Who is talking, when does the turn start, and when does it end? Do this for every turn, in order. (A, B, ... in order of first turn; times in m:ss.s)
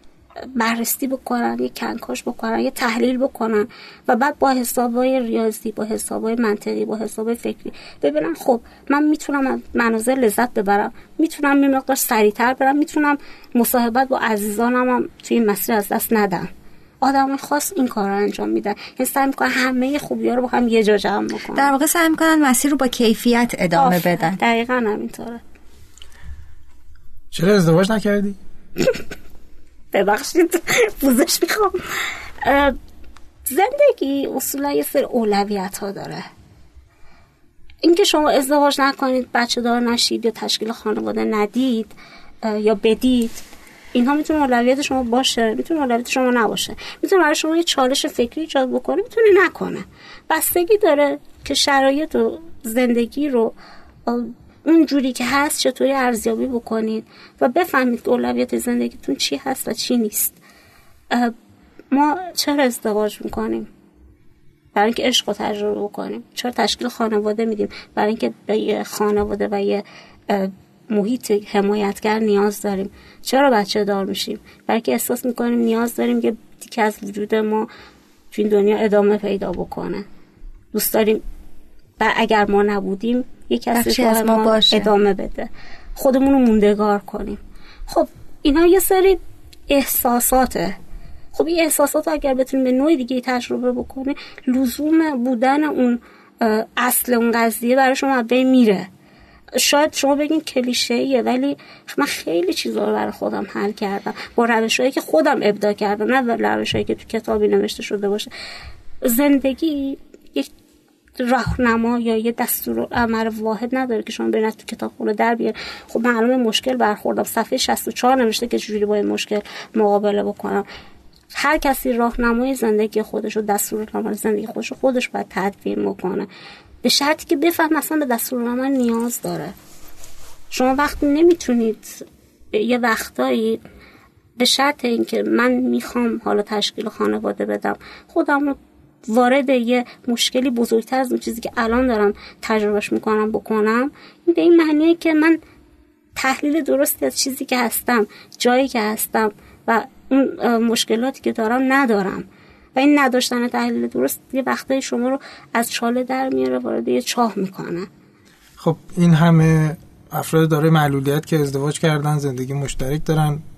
0:00.4-0:16.5 A
0:17.0-0:21.7 A
0:21.5-0:24.4 B
0:23.7-0:25.4 A
0:27.3-0:28.4 C
0:29.9-0:31.8 A
0:32.4-0:32.8 A
0:33.4-0:36.2 A
0:37.8-0:43.4 A
0:43.9-0:53.5 A
0:54.0-1:00.4 A
1:01.9-1:03.7 A
1:04.7-1:17.7 A
1:18.3-1:20.0 A
1:20.7-1:21.2 A
1:22.0-1:30.8 A
1:23.7-1:24.9 B
1:31.3-1:38.9 A
1:39.6-1:48.3 A
1:49.0-1:50.5 A
1:51.2-2:00.6 A
2:01.3-2:06.3 A
2:06.8-2:09.5 A
2:10.5-2:13.6 A
2:14.4-2:25.4 A
2:26.2-2:37.9 A
2:38.6-2:43.4 C